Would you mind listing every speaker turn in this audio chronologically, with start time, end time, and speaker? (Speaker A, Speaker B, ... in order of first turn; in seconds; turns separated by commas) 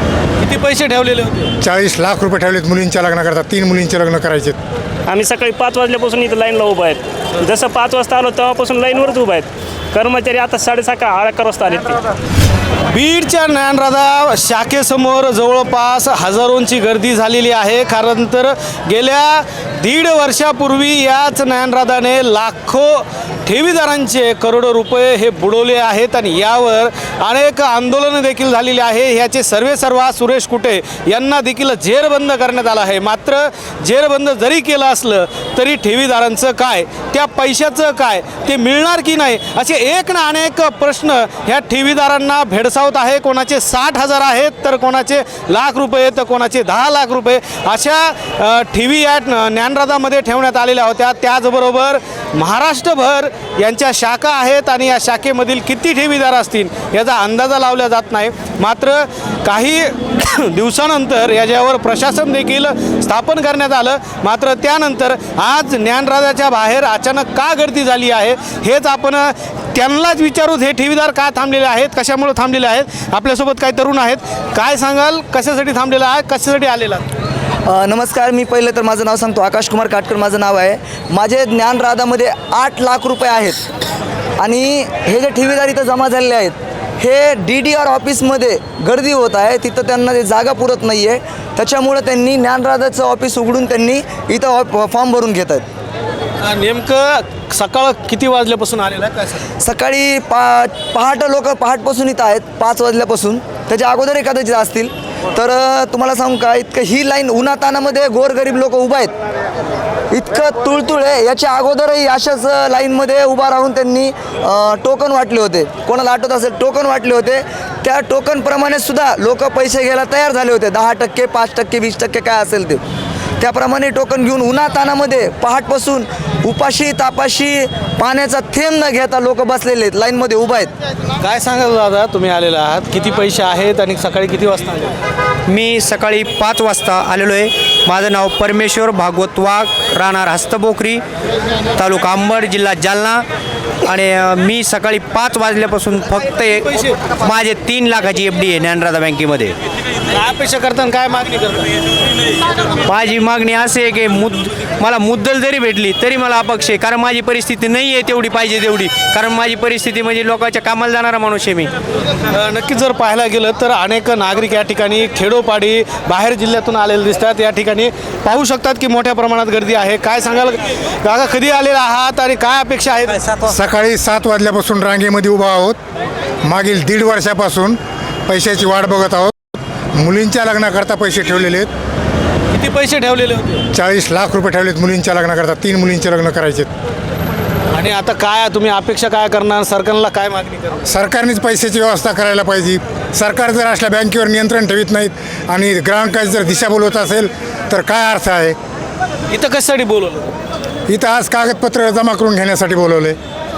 Speaker A: 0.4-1.5, Speaker B: 1.6-4.6, Speaker C: 5.1-12.0, Speaker A: 12.9-77.0, Speaker D: 77.7-83.6, Speaker D: 84.4-95.6, Speaker A: 96.4-99.4, Speaker D: 99.6-109.1, Speaker D: 110.1-122.8, Speaker D: 123.4-130.7, Speaker A: 131.2-134.9, Speaker E: 135.4-141.0, Speaker E: 141.7-143.3, Speaker E: 143.8-149.6, Speaker A: 146.5-147.0, Speaker A: 150.1-151.8, Speaker E: 152.8-161.7, Speaker A: 162.3-173.3, Speaker B: 173.4-175.8, Speaker B: 176.4-179.3, Speaker B: 179.9-181.7, Speaker A: 182.5-183.6, Speaker B: 183.7-186.7, Speaker A: 187.7-190.9, Speaker B: 190.8-198.6, Speaker A: 199.3-200.3, Speaker B: 200.9-203.2